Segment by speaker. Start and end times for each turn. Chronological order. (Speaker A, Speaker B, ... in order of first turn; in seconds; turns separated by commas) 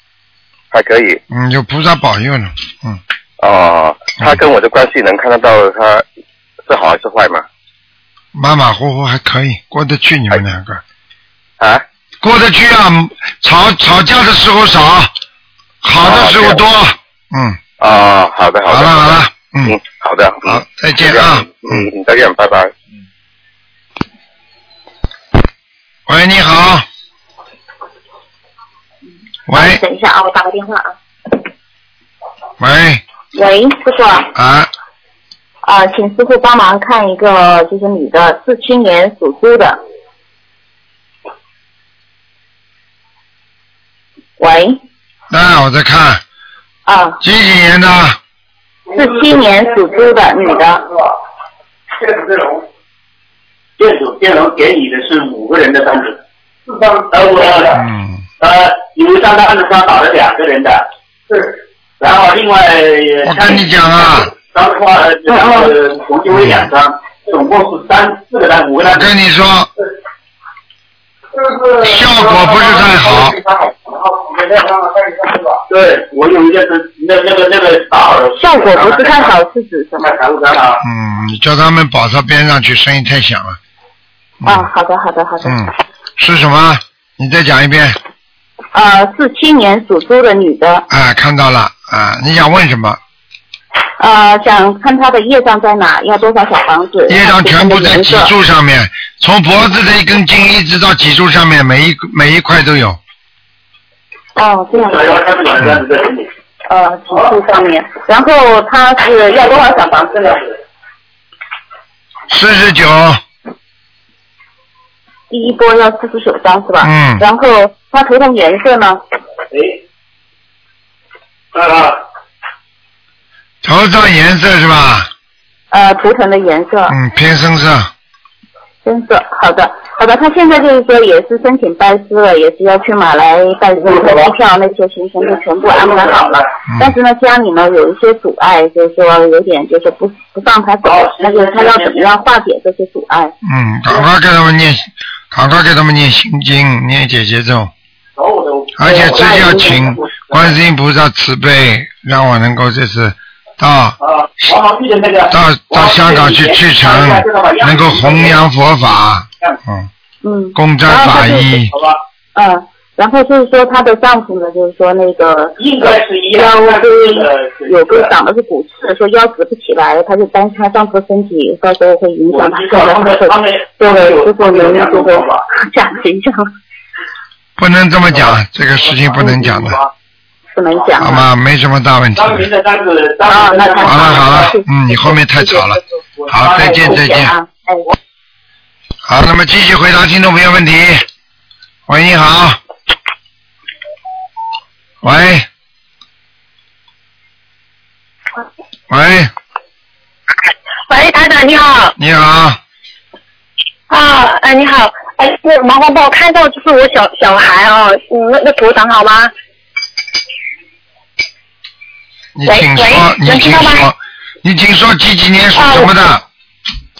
Speaker A: 0.7-1.2, Speaker B: 1.3-3.0, Speaker A: 3.4-6.0, Speaker A: 6.7-7.4, Speaker B: 8.3-10.8, Speaker B: 12.2-15.1, Speaker B: 15.8-17.6, Speaker A: 16.0-16.6, Speaker A: 17.8-22.7, Speaker B: 18.7-19.8, Speaker B: 20.4-21.9, Speaker B: 26.1-26.9, Speaker B: 29.5-29.8, Speaker C: 29.5-30.9, Speaker B: 32.6-33.0, Speaker C: 33.3-34.3, Speaker B: 34.3-34.7, Speaker C: 35.6-39.8, Speaker C: 44.4-44.8, Speaker B: 45.3-46.2, Speaker C: 46.9-47.2, Speaker B: 47.2-48.2, Speaker C: 48.9-50.9, Speaker D: 53.8-56.2, Speaker D: 56.7-57.8, Speaker B: 57.7-58.2, Speaker D: 58.4-60.9, Speaker D: 62.0-63.6, Speaker B: 63.2-64.3, Speaker D: 64.4-69.1, Speaker C: 65.3-65.7, Speaker B: 66.3-66.7, Speaker B: 68.8-69.7, Speaker B: 71.8-73.4, Speaker D: 72.8-79.3, Speaker C: 78.3-80.1, Speaker D: 80.0-80.8, Speaker B: 80.8-83.6, Speaker B: 84.4-84.7, Speaker C: 84.4-85.6, Speaker B: 85.4-88.0, Speaker C: 88.7-90.8, Speaker B: 90.9-93.0, Speaker C: 94.0-98.3, Speaker B: 97.1-103.0, Speaker C: 104.3-105.3, Speaker D: 104.8-106.2, Speaker C: 106.7-110.4, Speaker B: 112.3-113.2, Speaker C: 115.3-119.0, Speaker B: 116.8-117.2, Speaker D: 121.5-122.0, Speaker B: 123.6-125.1, Speaker C: 125.7-127.0, Speaker B: 126.9-127.9, Speaker C: 128.8-143.3, Speaker D: 133.8-134.4, Speaker D: 135.6-136.4, Speaker B: 136.7-136.9, Speaker D: 140.8-142.1, Speaker B: 143.4-147.7, Speaker D: 148.2-150.5, Speaker B: 148.8-154.0, Speaker C: 148.8-149.9, Speaker D: 154.0-158.4, Speaker B: 155.3-159.9, Speaker C: 160.2-161.6, Speaker B: 160.5-161.7, Speaker D: 161.7-162.0, Speaker C: 162.3-176.5, Speaker D: 165.6-168.1, Speaker D: 172.3-175.4, Speaker B: 177.6-179.8, Speaker C: 179.2-179.6, Speaker C: 180.5-181.2, Speaker B: 181.0-182.5, Speaker D: 182.2-184.5, Speaker C: 183.3-187.8, Speaker B: 183.8-187.3, Speaker D: 186.2-187.1, Speaker B: 189.1-191.0, Speaker B: 191.9-192.6, Speaker B: 195.0-195.5, Speaker B: 198.9-199.3, Speaker E: 200.9-201.9, Speaker B: 202.0-202.6, Speaker E: 203.9-209.3, Speaker B: 212.3-216.2, Speaker E: 212.4-213.9, Speaker E: 215.6-215.9